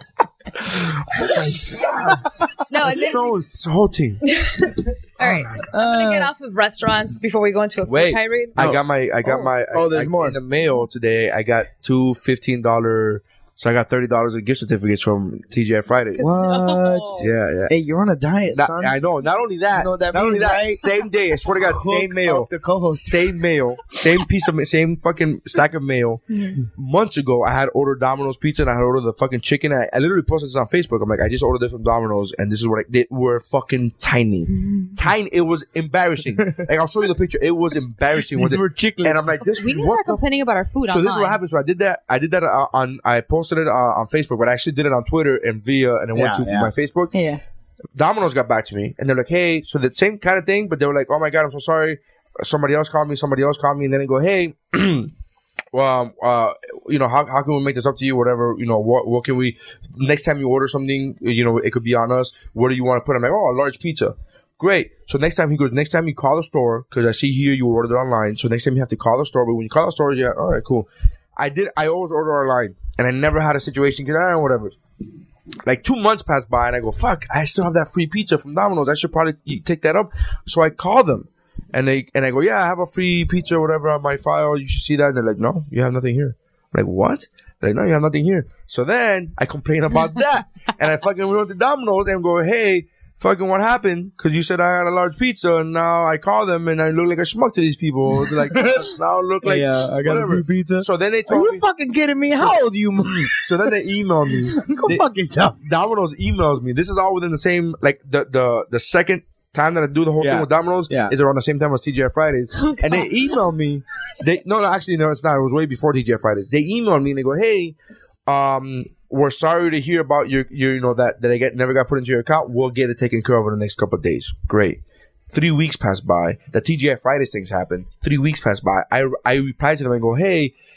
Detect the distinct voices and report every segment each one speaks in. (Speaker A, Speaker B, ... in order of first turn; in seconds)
Speaker A: 0.6-4.2, 5.2-5.7, 7.8-16.3, 17.2-17.7, 18.5-40.2, 40.9-47.1, 48.0-55.1, 55.7-74.7, 75.7-101.7, 103.3-105.1, 105.6-117.8, 118.3-130.5
Speaker B: 1.8-2.1, 5.7-6.3, 8.6-10.4, 16.2-18.9, 19.7-20.8, 21.5-23.2, 38.3-39.4, 46.1-46.7, 98.3-98.9, 99.4-103.4, 104.5-105.6, 110.2-111.1
Speaker C: 2.7-3.3, 4.3-8.7, 16.2-17.3, 26.3-26.6, 34.6-34.9, 39.5-41.4, 47.1-47.4